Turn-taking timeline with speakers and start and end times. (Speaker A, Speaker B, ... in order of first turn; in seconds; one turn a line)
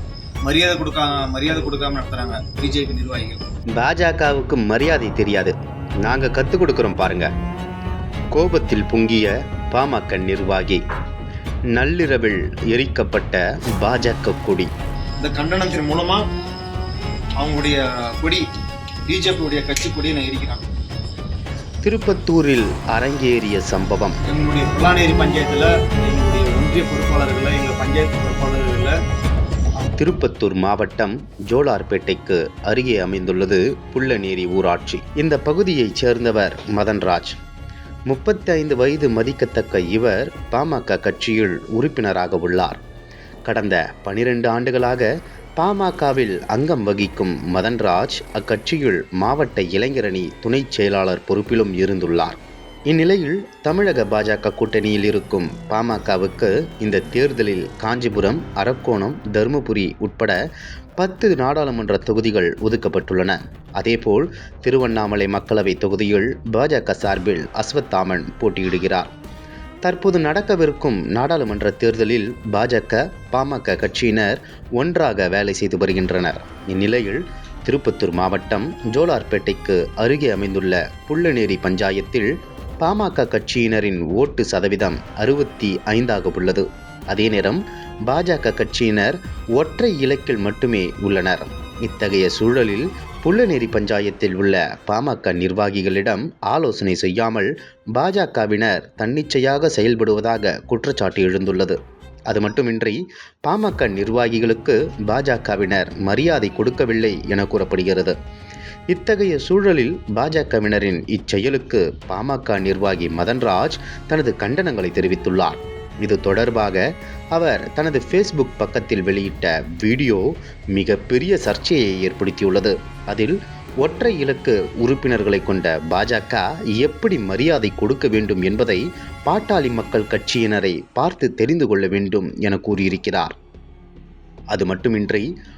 Speaker A: 0.4-3.4
Speaker B: 3.8-7.3
Speaker B: 8.3-10.8
Speaker B: 11.7-14.7
Speaker A: 15.2-16.2
Speaker A: 17.4-18.4
Speaker A: 19.1-20.6
Speaker B: 21.8-24.2
Speaker A: 24.3-28.9
Speaker B: 30.0-37.3
Speaker B: 38.1-42.8
Speaker B: 43.5-52.4
Speaker B: 52.9-60.4
Speaker B: 61.0-69.1
Speaker B: 69.8-101.8
Speaker B: 102.3-108.1
Speaker B: 108.9-133.3
Speaker B: 134.5-135.3